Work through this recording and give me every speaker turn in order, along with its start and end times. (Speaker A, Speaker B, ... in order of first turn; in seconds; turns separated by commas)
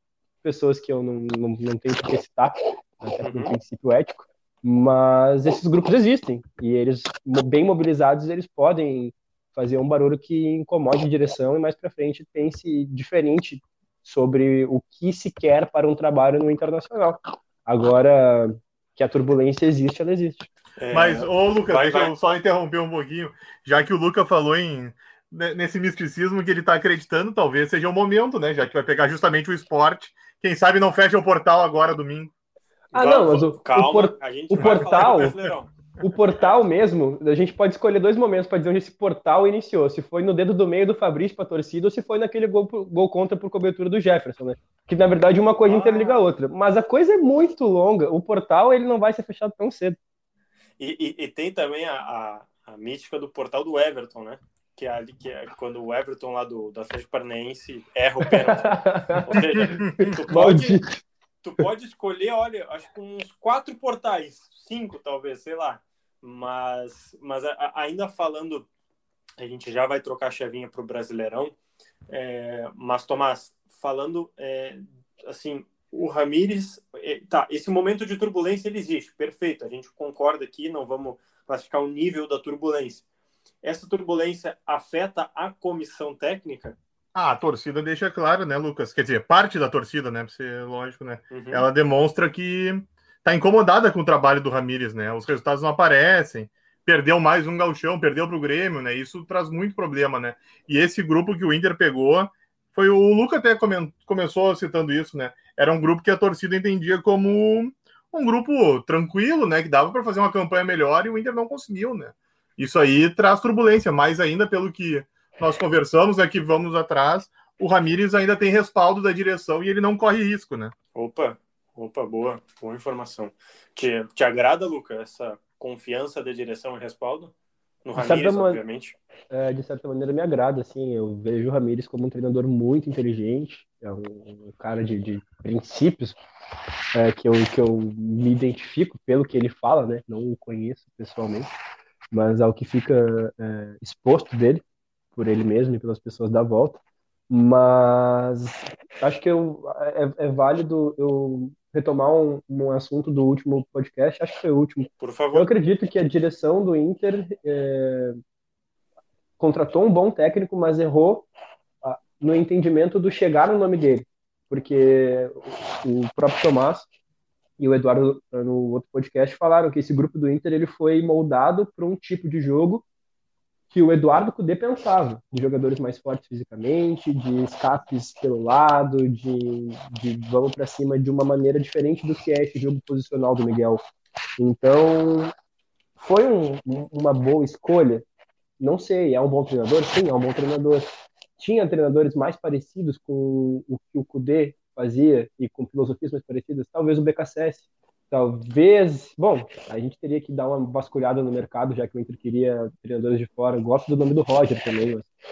Speaker A: 0.4-20.5, Speaker B: 3.2-3.5, Speaker B: 20.8-22.1, Speaker C: 20.9-32.3, Speaker B: 32.9-35.7, Speaker A: 32.9-35.4, Speaker A: 36.0-50.0, Speaker B: 45.6-46.2, Speaker B: 50.8-60.8, Speaker A: 58.2-61.0, Speaker C: 59.6-60.1, Speaker B: 61.4-68.7, Speaker B: 69.4-71.6, Speaker B: 72.1-83.0, Speaker B: 83.6-86.8, Speaker C: 87.1-120.7, Speaker B: 91.3-91.7, Speaker B: 121.0-127.3, Speaker B: 127.8-129.0, Speaker A: 128.0-128.6, Speaker A: 129.3-136.2, Speaker A: 136.9-141.5, Speaker A: 142.1-144.6, Speaker A: 145.2-158.2, Speaker B: 155.0-155.5, Speaker A: 159.4-161.3, Speaker A: 161.8-166.9, Speaker A: 167.6-172.8, Speaker A: 173.7-183.8, Speaker A: 184.4-185.3, Speaker A: 186.0-188.1, Speaker A: 188.6-205.1